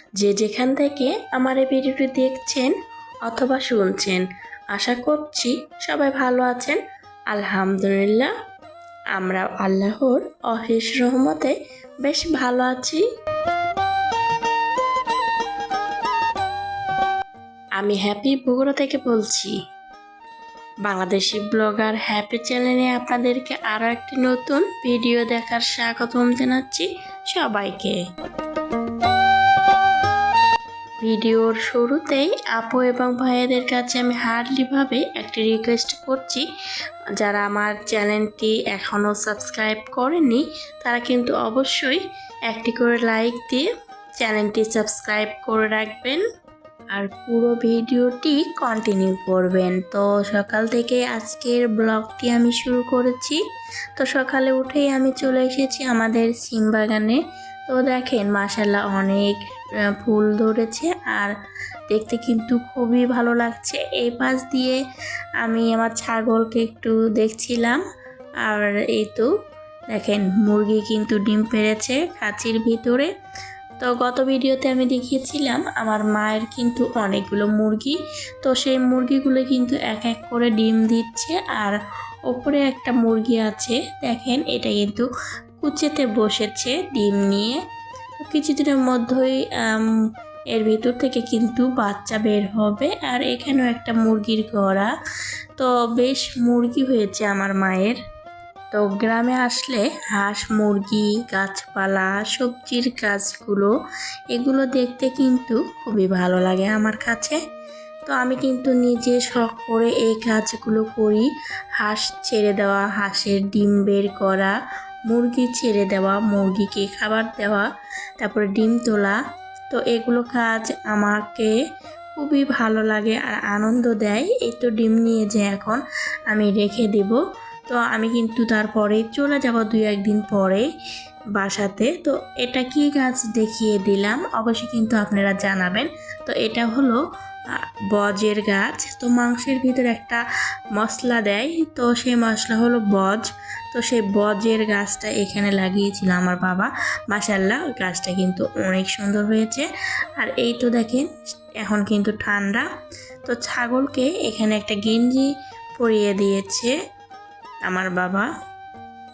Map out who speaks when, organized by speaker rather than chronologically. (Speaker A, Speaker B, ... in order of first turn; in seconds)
Speaker A: 0.2-2.7, 3.2-6.8, 7.3-8.3, 9.2-13.0, 17.8-19.5, 20.9-28.0, 31.0-36.5, 37.2-43.7, 44.2-46.2, 46.9-53.4, 54.0-59.4, 60.0-61.3, 61.9-64.8, 65.4-67.8, 68.4-69.3, 69.9-73.1, 73.8-81.8, 82.3-85.1, 85.6-87.6, 88.2-89.9, 90.5-94.9, 95.6-98.0, 98.7-103.7, 104.3-107.4, 108.1-114.6, 115.1-117.7, 118.2-119.2, 119.7-121.5, 122.2-130.7, 131.3-137.0, 137.9-140.2, 140.8-151.1, 151.6-152.7, 153.2-156.7, 157.7-158.3